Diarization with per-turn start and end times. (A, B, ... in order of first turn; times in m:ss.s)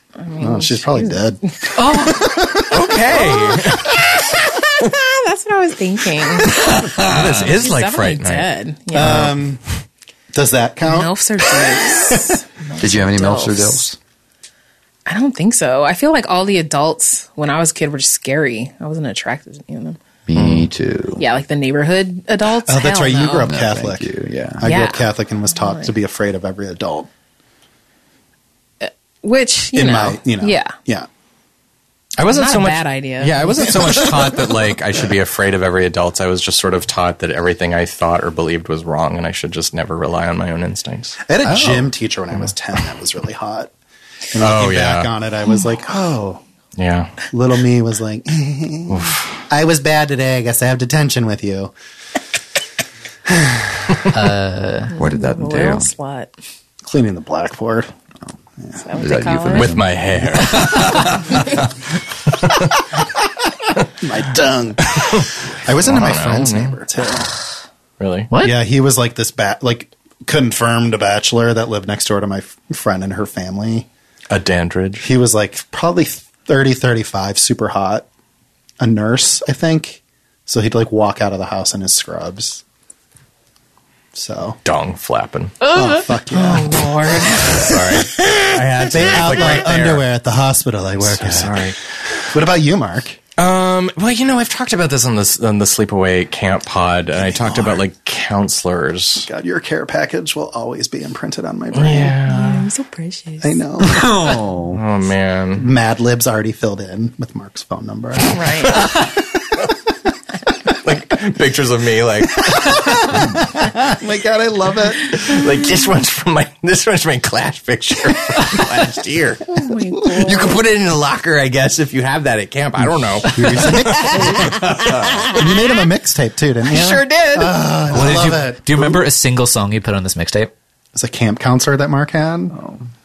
0:00.2-0:01.2 A
0:00.4-0:03.7 B
0:01.8-0:02.3 A
0:02.7-0:04.0 C
0:04.6-0:09.3 A
0:06.8-0:07.4 D
0:07.1-0:09.4 C
0:08.9-0:09.6 B
0:10.3-0:12.1 B
0:10.8-0:13.8 A
0:12.8-0:14.0 D
0:15.1-0:20.0 A
0:20.3-0:21.2 D
0:20.4-0:20.7 C
0:21.2-0:23.5 A
0:22.6-0:24.1 B
0:23.4-0:24.7 D
0:24.6-0:27.1 B
0:24.6-0:25.9 A
0:28.8-0:30.8 A
0:29.7-0:31.1 B
0:32.2-0:41.2 C
0:32.2-0:34.1 A
0:41.3-0:43.7 B
0:41.4-0:41.9 D
0:44.3-0:46.4 B
0:44.4-0:45.1 C
0:46.8-0:47.1 C
0:47.3-0:51.7 B
0:48.9-0:49.4 C
0:53.3-0:53.8 B
0:54.1-0:54.9 E
0:54.9-0:56.3 A
0:55.0-0:55.9 D
0:56.8-0:57.9 B
0:58.8-0:59.7 A
0:58.9-1:01.5 D
0:59.5-1:01.2 C
1:04.0-1:07.4 B
1:04.9-1:06.8 C
1:08.0-1:08.3 C
1:08.3-1:08.6 E
1:08.4-1:13.9 B
1:14.3-1:15.1 C
1:15.0-1:18.1 B
1:18.8-1:22.6 B
1:24.1-1:24.6 B
1:24.6-1:25.6 C
1:25.6-1:28.6 A
1:25.7-1:27.2 B
1:27.5-1:30.0 C
1:28.9-1:31.8 B
1:31.0-1:31.8 C
1:32.3-1:33.2 B
1:33.4-1:39.3 C
1:37.2-1:37.8 B
1:39.2-1:42.2 B
1:41.7-1:42.7 C
1:42.2-1:43.6 A
1:43.4-1:44.3 B
1:43.8-1:44.8 D
1:44.7-1:45.7 C
1:45.6-1:49.2 B
1:48.3-1:49.0 A
1:50.7-1:53.2 C
1:52.4-1:55.4 B
1:55.2-1:59.5 C
1:59.5-2:00.6 A
2:00.1-2:05.4 C
2:03.2-2:09.0 B
2:06.7-2:07.9 C
2:07.9-2:10.5 E
2:10.9-2:12.6 B
2:12.5-2:12.9 D